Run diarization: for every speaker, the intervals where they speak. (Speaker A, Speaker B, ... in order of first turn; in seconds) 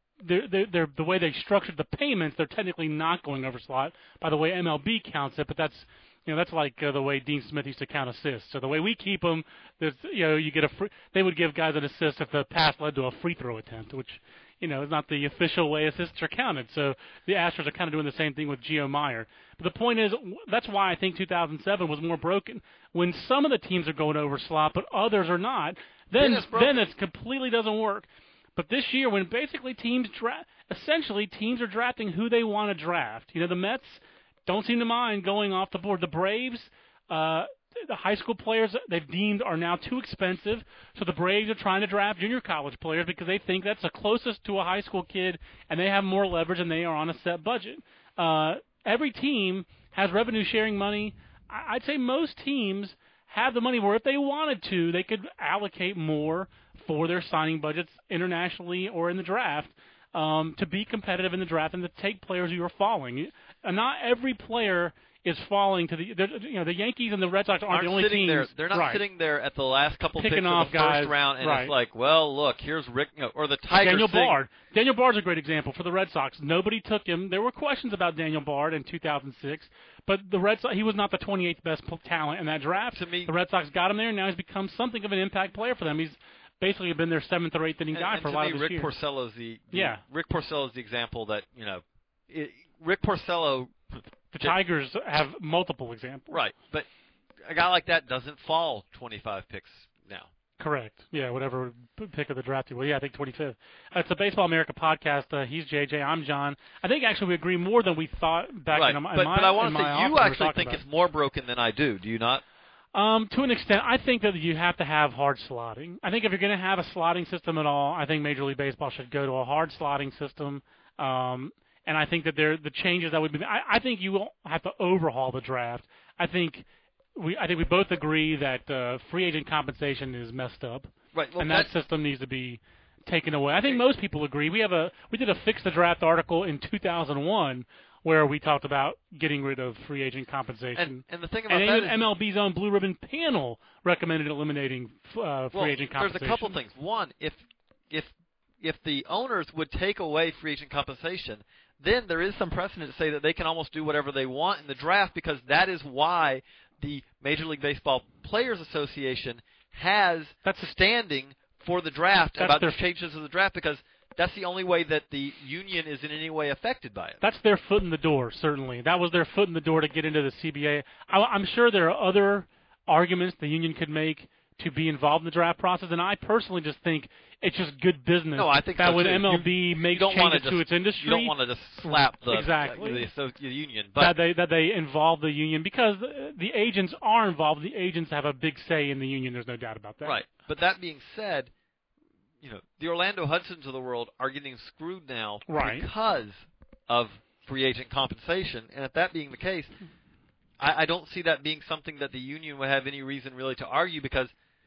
Speaker A: 0.2-69.0, 70.2-71.7, 73.7-88.9, 89.7-90.0, 94.3-96.3, 100.6-110.8, 112.9-126.6, 127.2-146.6, 160.4-160.7, 162.4-162.8, 167.2-183.1, 184.0-190.2, 195.5-195.8
Speaker B: 26.2-26.8, 67.7-74.3, 82.9-83.3, 87.9-94.5, 96.3-96.9, 97.4-100.3, 108.7-112.4, 131.1-131.7, 140.8-142.1, 145.5-167.2, 178.3-184.1, 190.0-191.5, 192.4-199.7, 200.6-204.3